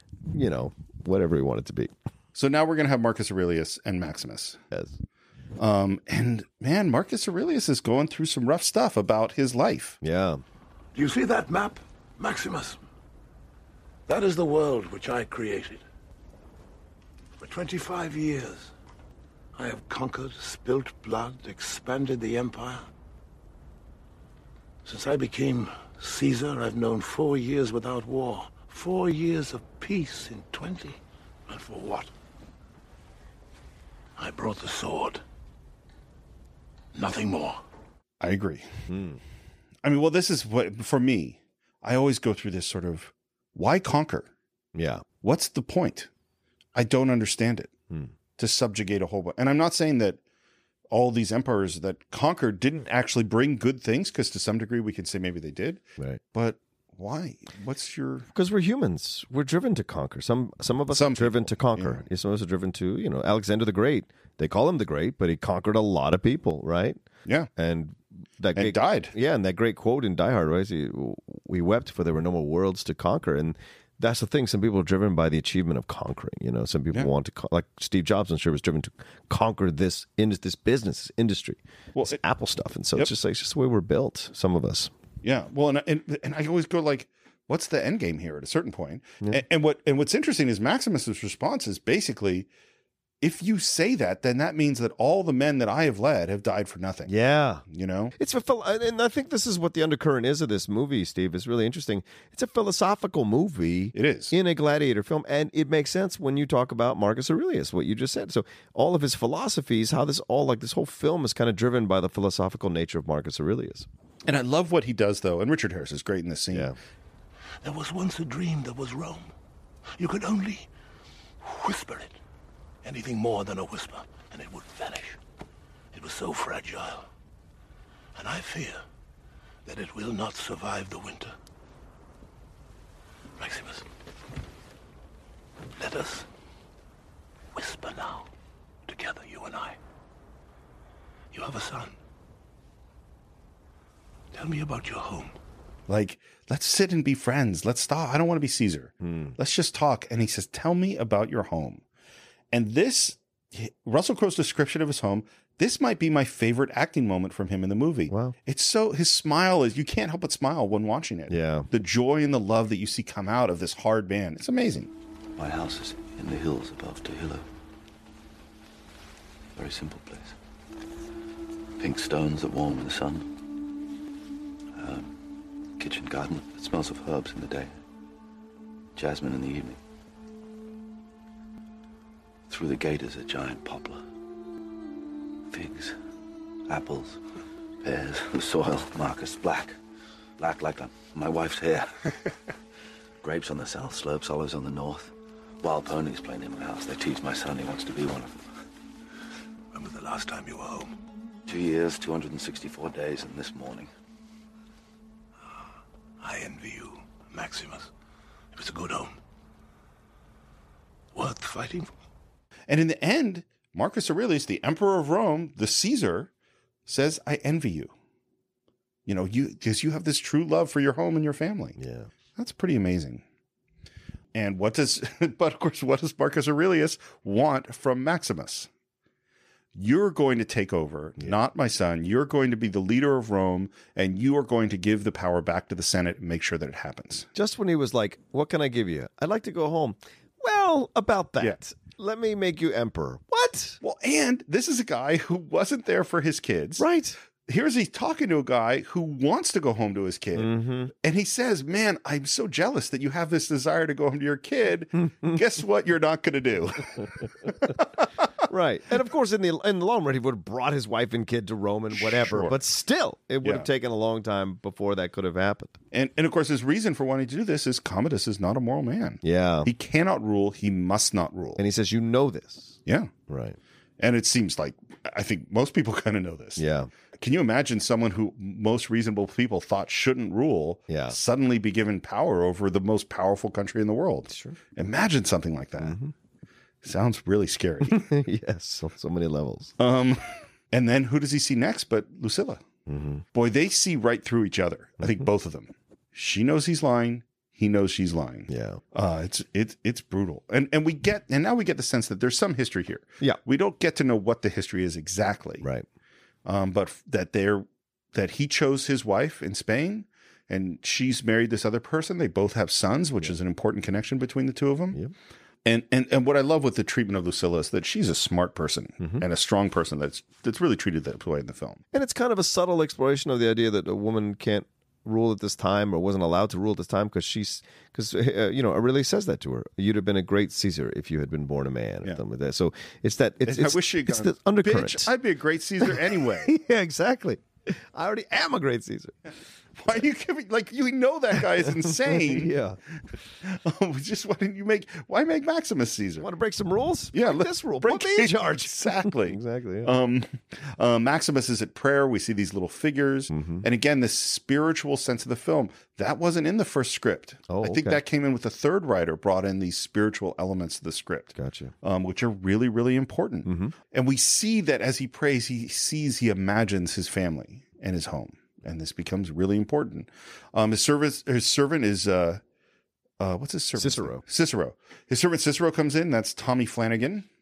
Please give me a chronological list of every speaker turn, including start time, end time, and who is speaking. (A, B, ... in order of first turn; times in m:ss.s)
0:00.3-0:01.9 A
0:02.4-0:04.6 B
0:04.7-0:05.0 A
0:05.6-0:10.0 B
0:10.0-0:10.4 A
0:11.0-0:12.8 C
0:14.1-0:15.8 C
0:17.4-0:18.7 C
0:19.6-0:22.9 C
0:24.8-0:32.1 C
0:34.2-0:35.2 C
0:37.0-0:37.6 C
0:38.2-0:38.7 B
0:38.9-0:39.2 A
0:39.8-0:44.3 B
0:44.8-0:45.0 A
0:45.2-0:46.1 B
0:46.8-0:47.7 B
0:48.4-0:50.2 B
0:50.9-0:58.3 B
0:58.3-1:07.0 A
1:00.9-1:02.1 B
1:07.6-1:24.9 A
1:08.5-1:09.1 B
1:22.0-1:22.2 B
1:25.2-1:32.5 B
1:33.2-1:37.1 B
1:37.1-1:37.6 A
1:37.7-1:38.1 B
1:38.2-1:53.9 A
1:43.9-1:44.3 B
1:54.3-1:56.7 B
1:56.5-1:56.8 A
1:57.6-1:59.3 C
2:00.0-2:00.7 C
2:01.4-2:02.2 C
2:02.8-2:05.2 C
2:05.9-2:07.1 C
2:08.2-2:08.8 C
2:09.6-2:11.3 C
2:13.4-2:13.9 C
2:15.8-2:16.3 C
2:17.5-2:18.3 C
2:18.9-2:19.8 C
2:21.3-2:22.0 C
2:24.3-2:25.3 C
2:25.9-2:31.8 B
2:29.0-2:29.4 A
2:32.5-2:44.9 B
2:38.1-2:38.4 A
2:41.3-2:41.7 A
2:45.4-2:47.5 D
2:49.6-2:50.4 D
2:51.8-2:53.3 D
2:54.8-2:55.1 D
2:55.8-2:57.7 D
2:59.0-2:59.8 D
3:02.5-3:04.0 D
3:05.5-3:06.0 D
3:06.7-3:07.2 D
3:07.8-3:09.8 D
3:10.4-3:12.1 D
3:13.2-3:18.5 D
3:19.7-3:21.0 C
3:21.5-3:23.9 D
3:26.2-3:27.9 C
3:28.5-3:29.2 C
3:31.1-3:31.9 C
3:32.7-3:36.3 B
3:36.9-3:37.9 B
3:39.1-3:41.8 B
3:41.8-3:42.1 A
3:42.4-3:43.2 B
3:44.3-3:48.7 B
3:49.8-3:57.3 B
3:57.3-4:03.8 A
4:03.8-4:06.9 B
4:06.8-4:07.2 A
4:07.5-4:18.1 B
4:10.4-4:10.9 A
4:18.5-4:25.8 A
4:21.9-4:22.6 B
4:23.4-4:23.7 B
4:25.9-4:31.6 B
4:29.2-4:29.7 A
4:31.6-4:33.6 A
4:32.9-4:33.1 B
4:34.0-4:36.6 B
4:36.6-4:36.9 A
4:37.2-4:46.0 B
4:40.9-4:41.2 A
4:44.3-4:44.6 A
4:45.8-4:46.1 A
4:46.8-4:48.1 B
4:47.8-4:49.7 A
4:49.8-4:52.6 B
4:52.9-4:53.2 A
4:53.3-5:05.7 B
4:58.5-4:58.8 A
5:05.6-5:05.9 A
5:06.5-5:15.0 B
5:15.7-5:21.8 B
5:21.9-5:35.1 A
5:33.4-5:36.5 B
5:35.8-5:39.2 A
5:39.8-5:42.5 B
5:41.6-5:42.8 A
5:43.4-5:46.3 B
5:46.2-5:50.0 A
5:47.1-6:12.4 B
5:53.3-5:53.7 A
5:57.5-5:58.0 A
6:01.4-6:01.7 A
6:03.4-6:03.7 A
6:13.2-6:17.3 B
6:13.8-6:14.2 A